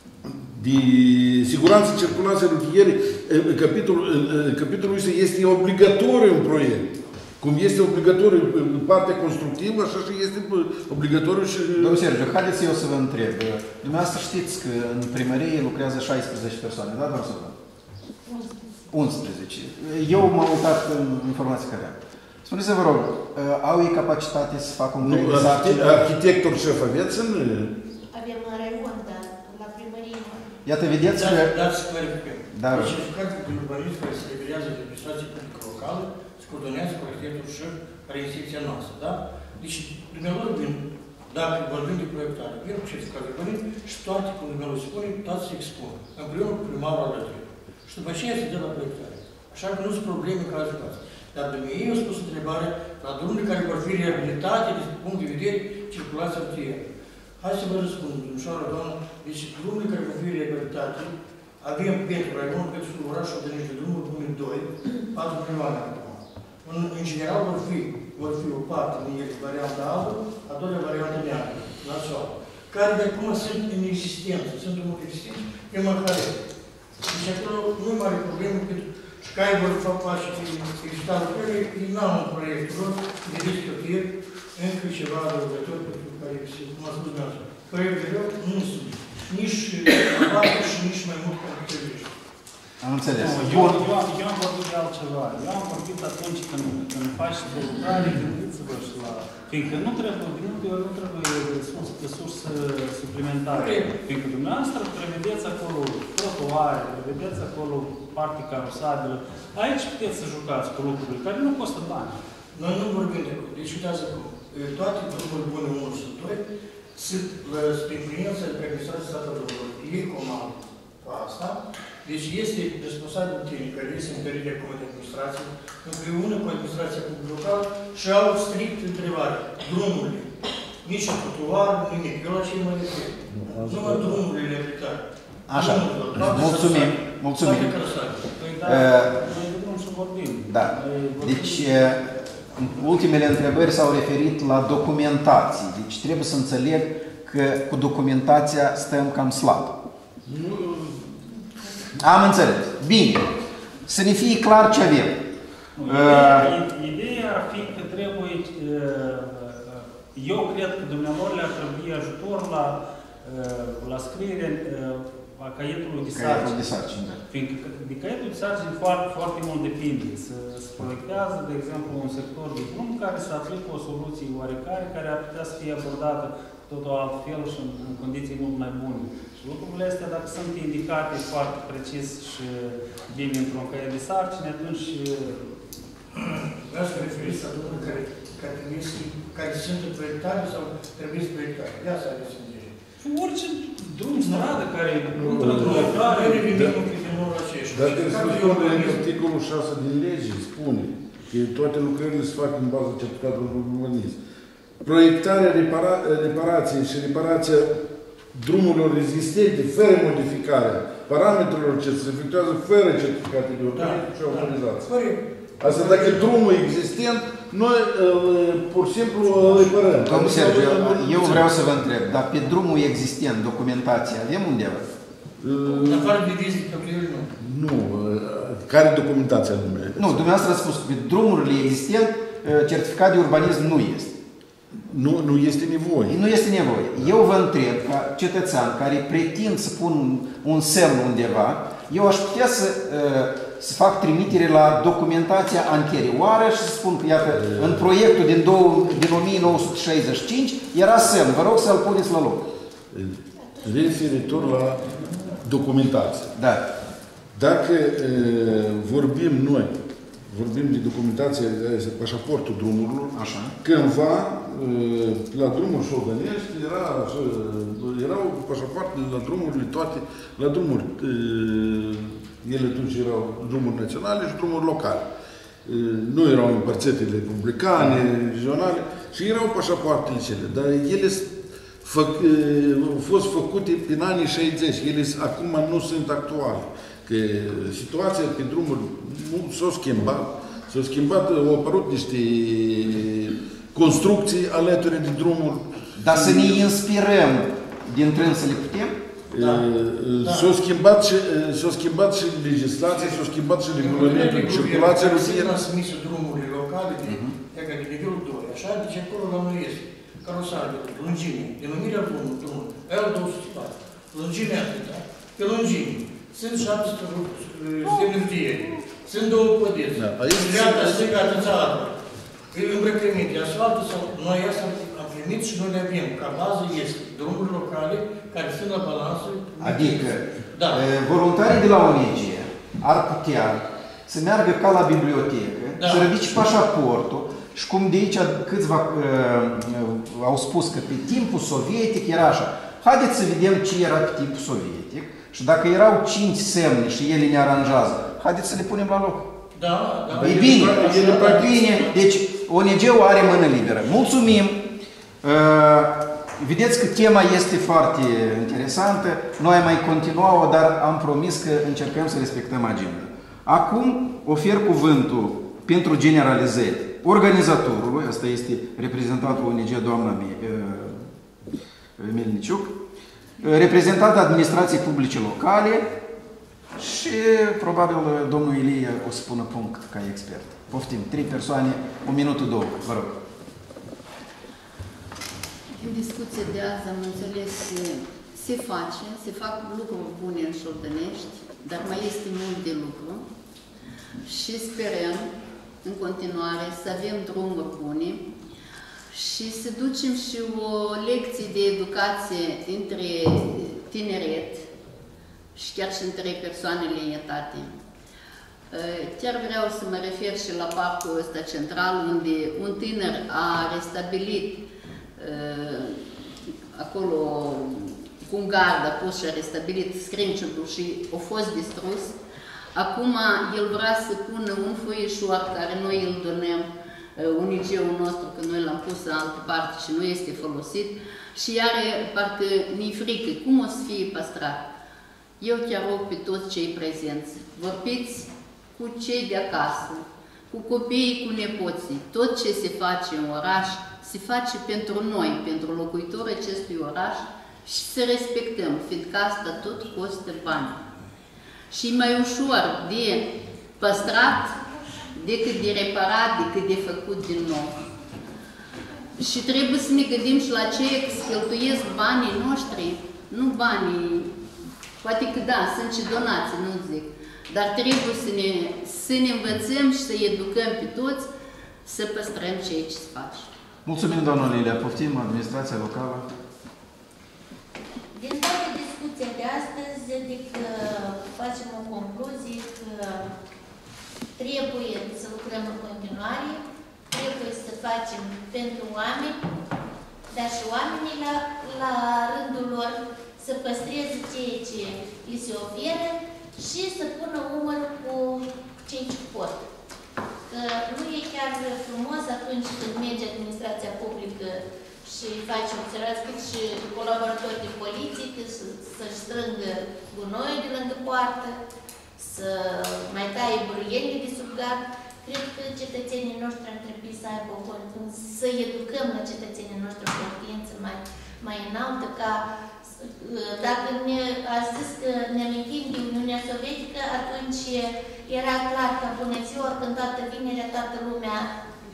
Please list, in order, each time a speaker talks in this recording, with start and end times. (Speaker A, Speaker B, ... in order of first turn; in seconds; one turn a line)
Speaker A: 0.2-12.0
Speaker B: 11.8-17.6
Speaker C: 18.3-18.7
Speaker B: 18.9-26.0
Speaker A: 25.0-27.8
Speaker C: 28.1-30.5
Speaker B: 30.6-31.5
Speaker D: 31.1-56.8
Speaker B: 32.5-33.0
Speaker D: 57.4-76.4
Speaker D: 77.0-92.1
Speaker B: 92.8-93.9
Speaker E: 93.2-112.2
Speaker D: 103.5-103.9
Speaker D: 112.5-116.4
Speaker D: 117.0-130.3
Speaker D: 130.8-138.2
Speaker A: 133.3-134.2
Speaker B: 135.5-137.7
Speaker E: 138.4-141.9
Speaker B: 138.7-139.1
Speaker B: 140.5-149.7
Speaker A: 150.3-151.2
Speaker B: 152.0-153.4
Speaker B: 153.9-155.2
Speaker E: 155.8-166.7
Speaker B: 155.8-156.5
Speaker B: 166.1-167.2
Speaker E: 167.3-185.6
Speaker D: 186.1-192.7
Speaker E: 193.0-196.5
Speaker D: 194.2-194.5
Speaker A: 195.2-196.8
Speaker D: 195.3-199.0
Speaker A: 197.7-204.2
Speaker A: 204.8-207.8
Speaker A: 208.3-214.9
Speaker D: 213.8-216.4
Speaker A: 215.6-221.5
Speaker D: 219.4-219.8
Speaker B: 220.0-224.9
Speaker A: 225.4-226.1
Speaker D: 225.7-227.3
Speaker A: 227.4-230.2
Speaker B: 230.0-234.2
Speaker A: 234.8-236.2
Speaker B: 236.1-252.5
Speaker A: 247.4-247.8
Speaker A: 252.9-256.3
Speaker C: 253.6-254.4
Speaker B: 256.4-256.7
Speaker A: 257.4-259.8
Speaker A: 260.3-275.1
Speaker B: 263.1-263.6
Speaker A: 275.6-296.6
Speaker B: 296.0-299.0
Speaker A: 299.3-305.6
Speaker D: 299.4-299.6
Speaker D: 300.2-300.5
Speaker D: 302.9-303.2
Speaker D: 303.8-322.0
Speaker B: 307.1-307.3
Speaker A: 320.0-321.6
Speaker D: 322.5-330.8
Speaker B: 329.6-349.3
Speaker D: 335.8-336.1
Speaker D: 349.6-351.9
Speaker A: 350.1-351.6
Speaker B: 350.2-354.7
Speaker B: 355.2-371.1
Speaker B: 372.0-372.8
Speaker B: 373.4-375.9
Speaker B: 376.8-383.2
Speaker F: 385.8-393.3
Speaker F: 394.2-395.3
Speaker F: 395.8-398.2
Speaker F: 399.1-404.7
Speaker F: 405.6-407.8
Speaker F: 408.7-414.6
Speaker F: 415.2-416.0
Speaker F: 416.7-422.1
Speaker F: 422.8-434.7
Speaker F: 435.4-450.8
Speaker F: 451.7-454.6
Speaker F: 455.1-457.8
Speaker F: 459.2-464.4
Speaker F: 465.0-471.3
Speaker F: 471.9-473.5
Speaker B: 473.9-476.3
Speaker C: 478.1-483.3
Speaker C: 484.4-489.4
Speaker C: 490.3-499.6
Speaker C: 500.5-511.6
Speaker C: 512.2-531.5